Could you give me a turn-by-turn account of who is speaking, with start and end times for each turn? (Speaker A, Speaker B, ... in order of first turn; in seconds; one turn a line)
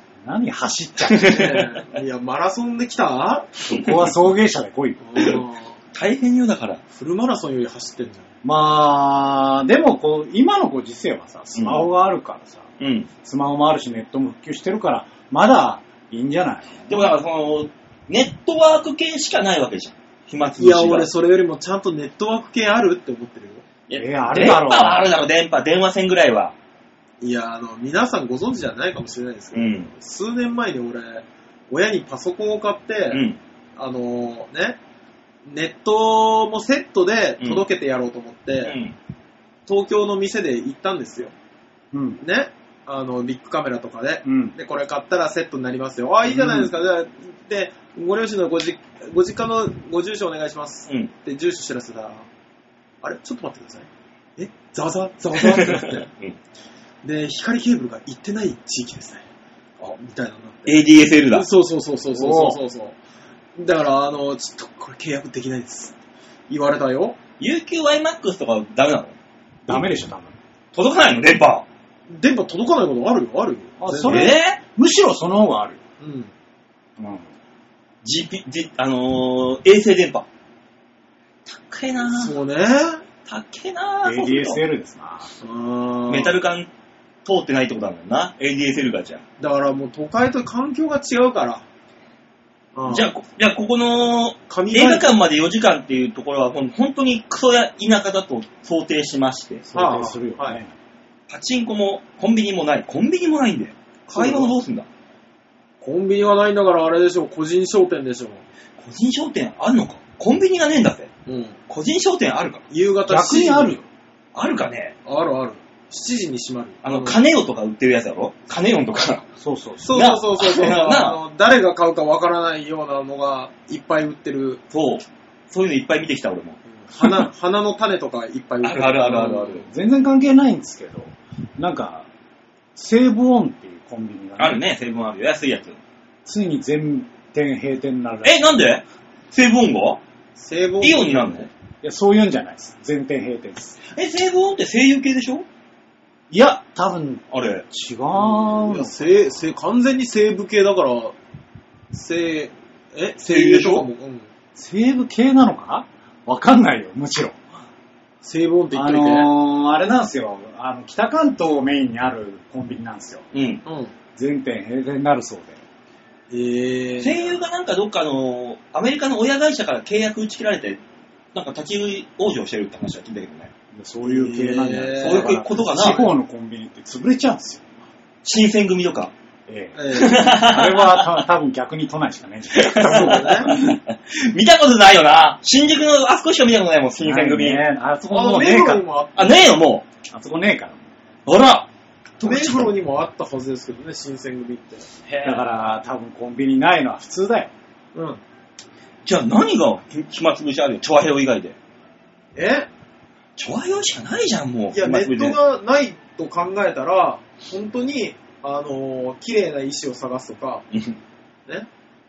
Speaker A: 0.2-1.3
Speaker B: 1.1-1.8
Speaker C: 1.2-3.5
Speaker B: 3.7-4.1
Speaker A: 3.7-5.1
Speaker C: 5.0-5.8
Speaker B: 5.9-6.8
Speaker C: 6.9-8.3
Speaker A: 8.4-12.6
Speaker B: 11.6-11.9
Speaker B: 12.8-13.1
Speaker A: 13.2-16.8
Speaker B: 16.9-21.1
Speaker C: 20.6-23.6
Speaker B: 23.9-26.5
Speaker A: 23.9-25.1
Speaker C: 27.2-33.2
Speaker B: 29.5-29.9
Speaker B: 33.1-33.4
Speaker C: 33.8-34.8
Speaker C: 35.4-38.8
Speaker B: 38.6-38.9
Speaker C: 39.7-41.3
Speaker A: 41.9-42.2
Speaker C: 42.2-52.3
Speaker A: 44.2-44.5
Speaker C: 53.0-56.0
Speaker B: 55.4-56.4
Speaker C: 57.0-59.2
Speaker C: 60.0-63.0
Speaker B: 60.6-61.5
Speaker A: 62.1-62.6
Speaker C: 63.5-65.9
Speaker C: 66.5-67.2
Speaker B: 67.4-69.1
Speaker A: 69.7-70.3
Speaker B: 70.7-71.6
Speaker C: 72.1-74.3
Speaker A: 73.8-75.8
Speaker B: 74.0-74.6
Speaker C: 76.0-76.3
Speaker A: 77.0-77.3
Speaker B: 78.0-80.2
Speaker B: 81.5-82.3
Speaker C: 82.0-83.0
Speaker B: 83.2-84.6
Speaker A: 84.0-85.3
Speaker C: 85.4-86.4
Speaker B: 86.1-86.7
Speaker B: 87.2-89.2
Speaker C: 89.4-91.6
Speaker C: 92.7-93.1
Speaker B: 92.9-99.6
Speaker C: 94.5-95.1
Speaker A: 99.7-100.7
Speaker C: 99.7-100.6
Speaker B: 101.3-104.8
Speaker C: 104.1-104.5
Speaker C: 105.8-108.4
Speaker B: 108.8-111.1
Speaker C: 111.2-111.5
Speaker B: 111.7-112.7
Speaker C: 112.7-113.8
Speaker A: 113.1-113.8
Speaker B: 114.3-114.9
Speaker C: 115.0-117.2
Speaker B: 116.8-119.2
Speaker A: 119.4-120.1
Speaker C: 119.8-124.6
Speaker B: 119.9-121.2
Speaker B: 124.7-127.2
Speaker C: 126.8-129.7
Speaker B: 128.6-129.7
Speaker A: 129.7-132.1
Speaker A: 132.8-134.6
Speaker B: 134.4-135.8
Speaker A: 136.2-138.4
Speaker B: 138.2-140.0
Speaker C: 140.4-141.4
Speaker B: 140.8-141.5
Speaker A: 141.8-143.8
Speaker B: 143.9-145.4
Speaker A: 146.3-149.1
Speaker B: 147.3-147.6
Speaker C: 148.1-151.2
Speaker C: 151.9-154.3
Speaker B: 153.3-153.9
Speaker A: 154.6-157.4
Speaker C: 158.2-159.3
Speaker A: 158.7-163.2
Speaker B: 163.3-163.6
Speaker C: 163.7-163.9
Speaker A: 164.1-165.6
Speaker C: 166.3-167.4
Speaker B: 167.0-170.8
Speaker B: 171.3-173.5
Speaker A: 173.7-177.7
Speaker C: 174.0-176.1
Speaker B: 175.0-176.1
Speaker B: 178.2-179.1
Speaker A: 179.5-183.8
Speaker C: 179.7-180.4
Speaker B: 179.9-181.2
Speaker B: 182.5-187.6
Speaker C: 182.9-183.5
Speaker A: 187.0-188.8
Speaker C: 188.1-189.6
Speaker B: 189.2-189.8
Speaker A: 190.1-190.8
Speaker B: 191.2-191.7
Speaker B: 192.2-192.7
Speaker C: 192.2-194.9
Speaker B: 195.1-195.4
Speaker A: 195.2-197.5
Speaker C: 197.9-198.2
Speaker B: 199.1-201.5
Speaker C: 202.3-202.7
Speaker B: 203.4-205.3
Speaker C: 204.7-210.6
Speaker B: 210.7-211.0